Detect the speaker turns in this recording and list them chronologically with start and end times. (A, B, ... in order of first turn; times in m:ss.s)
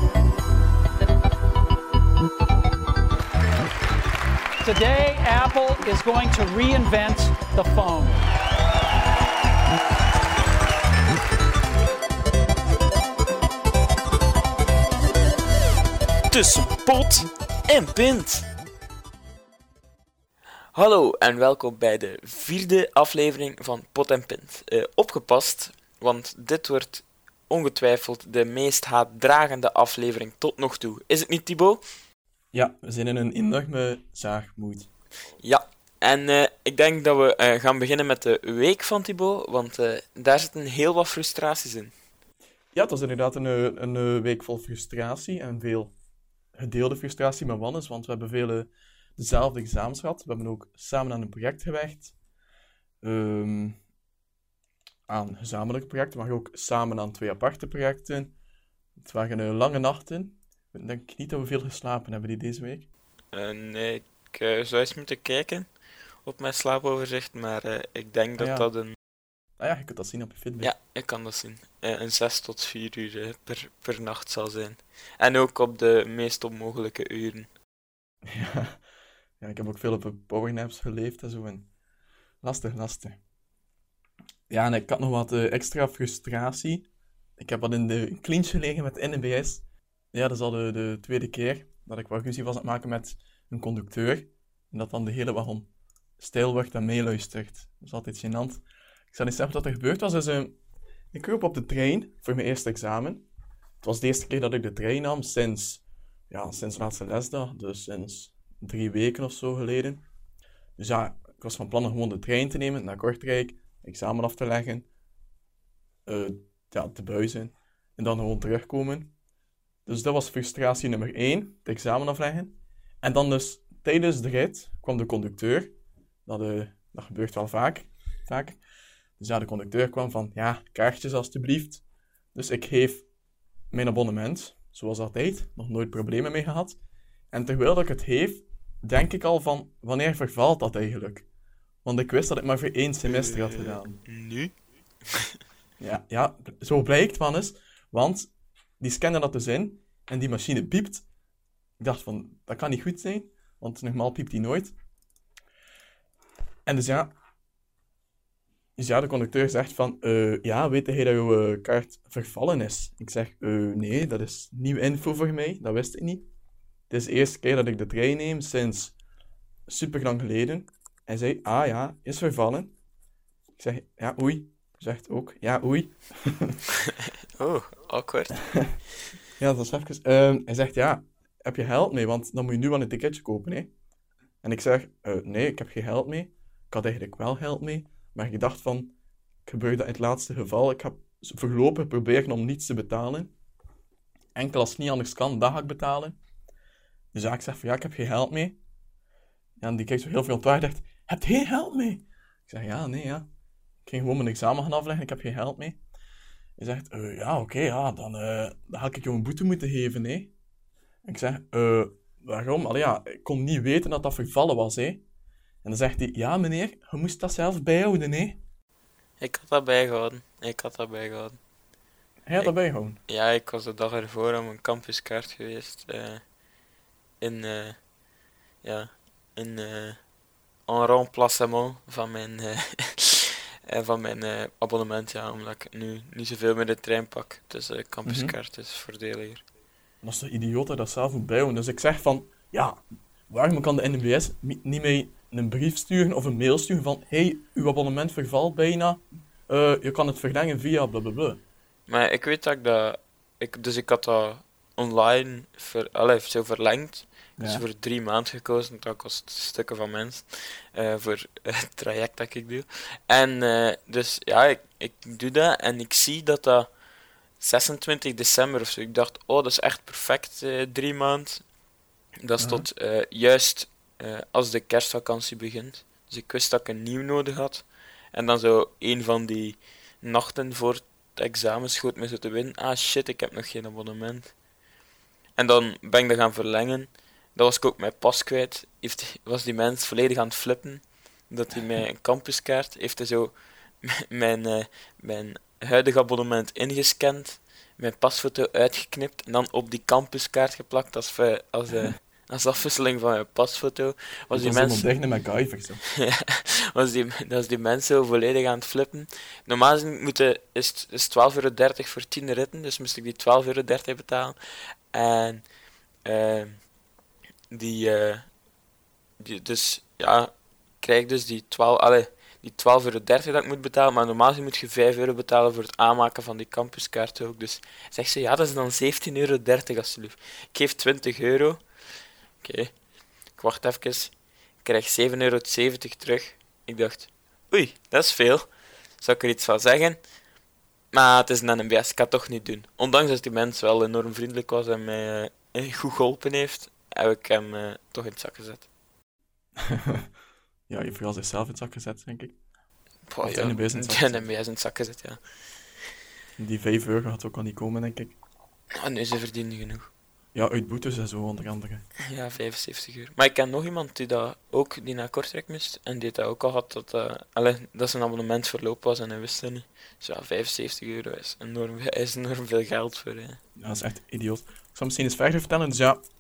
0:04.6-0:08.2 A
0:16.3-0:18.5 B
0:20.7-0:31.8 B
0:32.5-0:34.9 C
0:35.4-0:41.9 B
0:42.7-0:45.9 C
0:46.5-0:52.1 C
0:53.0-0:53.8 C
0:55.1-0:58.4 C
0:59.0-1:02.9 C
1:03.3-1:05.7 B
1:06.2-1:09.0 B
1:08.4-1:08.7 C
1:09.6-1:10.7 C
1:10.6-1:17.5 B
1:18.3-1:18.8 C
1:19.4-1:21.7 C
1:22.4-1:23.2 C
1:24.5-1:40.6 C
1:41.1-1:43.3 C
1:43.8-1:50.0 C
1:50.8-1:54.9 C
1:56.1-1:59.1 C
1:59.9-2:05.8 C
2:06.3-2:08.6 C
2:09.2-2:11.8 C
2:12.4-2:13.1 C
2:13.7-2:16.8 C
2:17.3-2:21.3 C
2:21.8-2:24.0 C
2:23.0-2:24.5 B
2:25.8-2:31.0 C
2:31.8-2:34.8 C
2:36.7-2:37.1 C
2:38.8-2:46.3 C
2:46.9-2:49.0 C
2:49.7-2:52.8 C
2:53.6-2:56.6 C
2:57.4-2:58.5 B
2:59.4-3:03.7 C
3:04.4-3:08.9 C
3:09.5-3:13.3 C
3:14.4-3:16.2 C
3:17.1-3:18.6 C
3:19.6-3:23.3 C
3:23.8-3:25.8 C
3:26.6-3:30.3 C
3:31.0-3:35.0 C
3:35.6-3:38.4 C
3:39.2-3:41.4 B
3:42.3-3:43.0 C
3:42.4-3:46.2 B
3:47.2-3:47.8 B
3:48.6-3:50.0 B
3:50.7-3:59.4 B
3:58.1-3:58.3 C
4:00.0-4:11.4 C
4:11.9-4:26.8 B
4:17.4-4:17.6 C
4:27.4-4:31.4 B
4:32.2-4:44.4 B
4:32.4-4:32.7 C
4:45.4-5:04.9 B
5:04.3-5:05.8 C
5:06.0-5:14.4 B
5:14.9-5:15.5 B
5:16.0-5:16.7 B
5:17.5-5:18.3 B
5:19.2-5:31.6 B
5:32.4-5:32.8 B
5:33.3-5:40.0 B
5:40.9-5:48.7 B
5:49.6-5:50.1 C
5:50.7-5:52.4 C
5:53.1-5:55.2 B
5:53.2-5:54.3 C
5:56.4-5:58.2 C
5:58.8-5:59.9 B
6:00.3-6:01.8 C
6:02.1-6:13.4 B
6:13.6-6:16.0 C